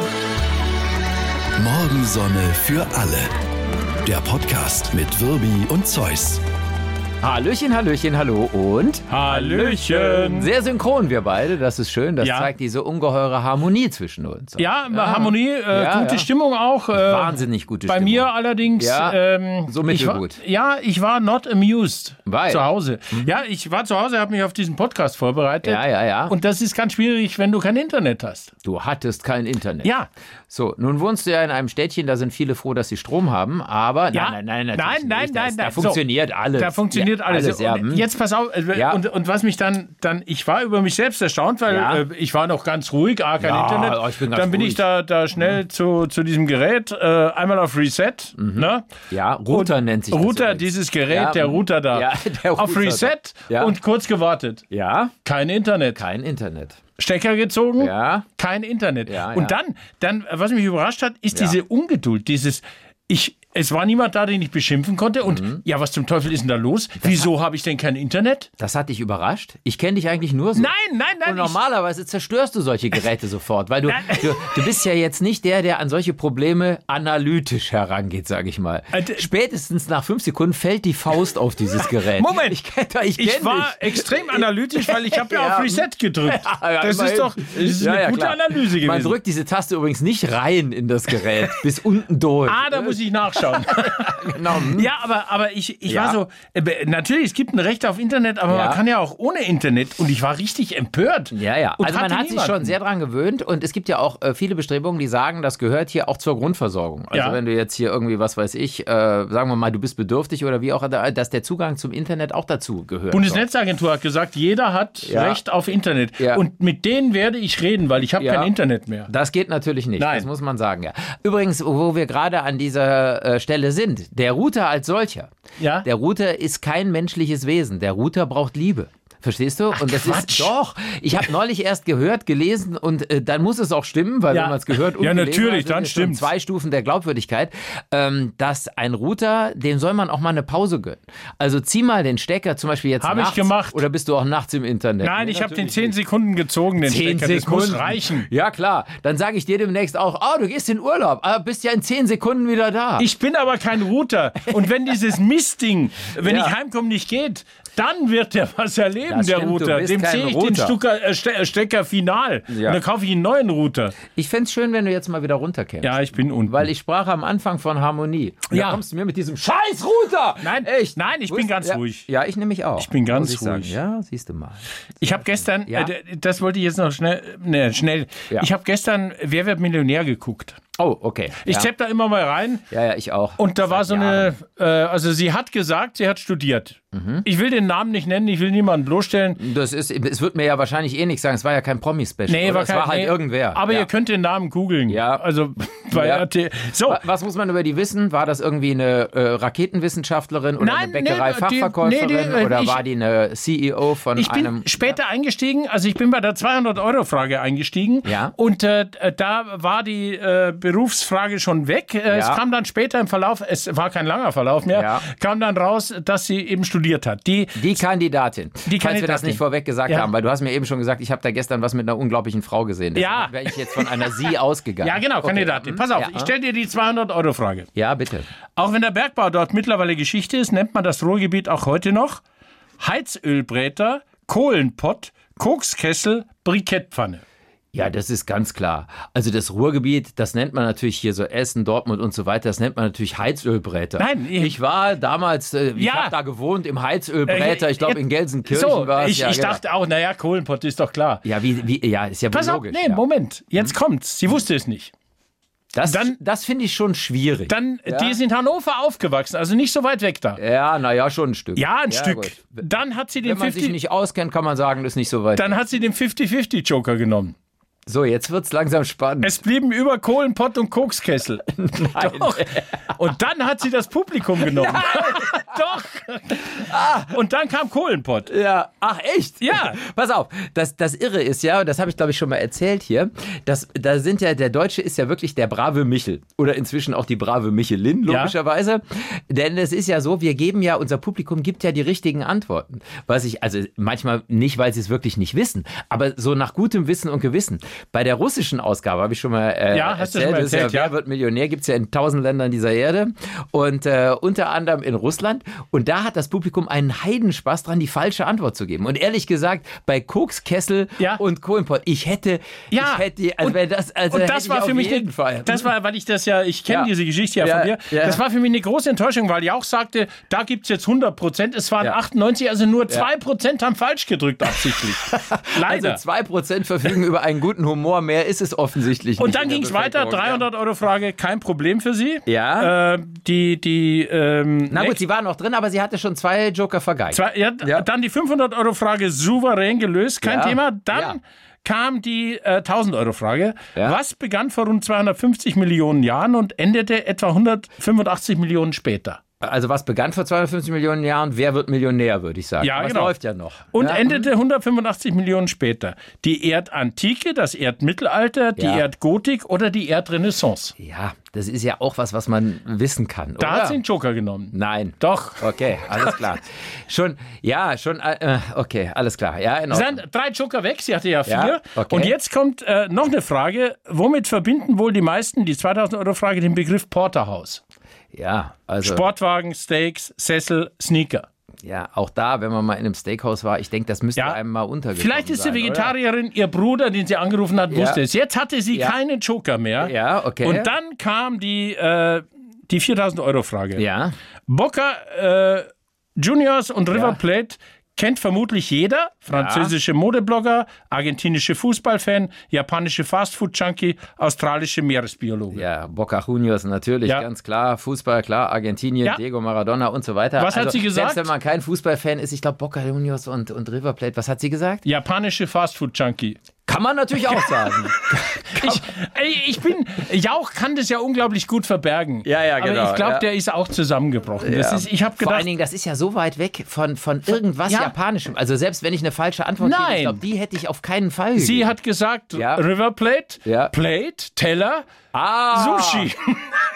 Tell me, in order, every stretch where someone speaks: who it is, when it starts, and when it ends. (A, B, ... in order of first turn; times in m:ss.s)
0:01.6-0:03.3 A
0:04.0-0:06.4 A
0:04.1-0:06.0 B
0:07.2-0:16.3 B
0:09.1-0:10.5 C
0:12.2-0:12.5 C
0:14.6-0:28.5 C
0:16.9-0:20.4 B
0:22.2-0:23.3 B
0:25.6-0:26.3 B
0:28.6-0:29.9 B
0:30.5-0:38.0 B
0:34.1-0:36.0 C
0:36.6-0:48.9 C
0:38.7-0:39.0 B
0:41.7-0:42.0 B
0:43.4-0:44.8 B
0:48.4-0:53.7 B
0:49.5-0:54.6 C
0:54.7-0:55.1 B
0:55.2-0:56.0 C
0:56.0-0:56.8 B
0:57.0-1:08.5 C
0:57.8-0:58.3 B
0:59.1-0:59.6 B
1:05.2-1:05.6 B
1:08.6-1:10.7 B
1:10.6-1:11.6 C
1:11.2-1:34.9 B
1:13.9-1:14.8 C
1:18.9-1:19.3 C
1:21.8-1:22.6 C
1:23.2-1:29.2 C
1:31.2-1:31.5 C
1:32.4-1:42.7 C
1:35.9-1:36.2 B
1:38.5-1:38.8 B
1:41.3-1:53.4 B
1:47.1-1:47.4 C
1:53.1-1:59.1 C
1:55.0-1:55.4 B
1:56.2-1:56.4 B
1:58.2-1:58.5 B
1:59.1-2:05.3 B
2:00.0-2:00.3 C
2:05.6-2:05.8 C
2:05.8-2:25.9 B
2:09.7-2:10.5 C
2:14.3-2:16.3 C
2:23.0-2:23.8 C
2:25.0-2:28.3 C
2:26.8-2:33.0 B
2:33.0-2:44.0 C
2:36.2-2:36.5 B
2:39.1-2:40.8 B
2:42.5-2:42.8 B
2:44.1-2:55.9 B
2:45.8-2:46.7 C
2:48.5-2:48.8 C
2:50.4-2:52.0 C
2:52.8-2:53.8 C
2:55.0-3:00.6 C
3:00.8-3:01.7 B
3:01.4-3:02.6 C
3:02.7-3:04.3 B
3:03.4-3:09.4 C
3:06.9-3:07.2 B
3:09.4-3:13.9 B
3:12.3-3:17.0 C
3:14.9-3:15.2 B
3:15.9-3:16.3 B
3:16.8-3:25.0 B
3:20.6-3:22.8 C
3:24.2-3:37.8 C
3:28.0-3:28.3 B
3:32.1-3:32.4 B
3:34.7-3:35.0 B
3:37.6-3:46.3 B
3:38.6-3:40.1 C
3:43.0-3:44.3 C
3:44.8-3:47.7 C
3:47.7-3:48.3 B
3:48.6-3:52.2 C
3:52.8-3:57.2 C
3:57.7-4:09.6 B
4:04.0-4:04.5 C
4:05.8-4:06.1 C
4:07.3-4:11.2 C
4:11.2-4:13.0 B
4:12.3-4:14.9 C
4:15.7-4:18.2 B
4:15.8-4:16.1 C
4:17.5-4:20.4 C
4:20.4-4:22.6 B
4:21.6-4:23.7 C
4:23.2-4:25.6 B
4:25.4-4:27.3 C
4:27.9-4:29.4 B
4:29.2-4:38.3 C
4:31.5-4:32.9 B
4:34.4-4:35.5 B
4:36.5-4:37.1 B
4:38.3-5:15.7 B
4:39.4-4:39.8 C
4:48.1-4:48.3 C
4:59.7-5:00.9 C
5:12.7-5:13.6 C
5:14.1-5:26.0 C
5:16.7-5:18.2 B
5:25.0-5:30.4 B
5:29.2-5:35.0 C
5:32.3-5:32.7 B
5:34.7-5:37.8 B
5:37.1-5:49.2 C
5:40.2-5:41.2 B
5:49.4-5:54.2 B
5:52.6-5:53.1 C
5:53.7-6:00.7 C
5:58.6-5:58.8 B
6:00.8-6:03.8 B
6:03.4-6:06.2 C
6:04.5-6:10.0 B
6:09.7-6:17.6 C
6:11.2-6:12.1 B
6:18.1-6:19.0 B
6:18.8-6:21.2 C
6:21.6-6:25.9 B
6:25.0-6:33.8 C
6:27.7-6:28.0 B
6:29.8-6:30.7 B
6:33.8-6:34.1 B
6:34.5-6:45.6 C
6:36.9-6:37.2 B
6:39.3-6:39.7 B
6:45.5-6:54.8 B
6:50.4-6:51.3 C
6:54.8-6:56.4 C
6:56.6-6:58.9 B
6:57.2-7:05.5 C
7:02.2-7:03.2 B
7:04.4-7:11.7 B
7:07.7-7:07.9 C
7:09.6-7:10.2 C
7:11.4-7:14.9 C
7:12.3-7:12.6 B
7:13.4-7:13.7 B
7:15.1-7:16.1 B
7:15.5-7:16.6 C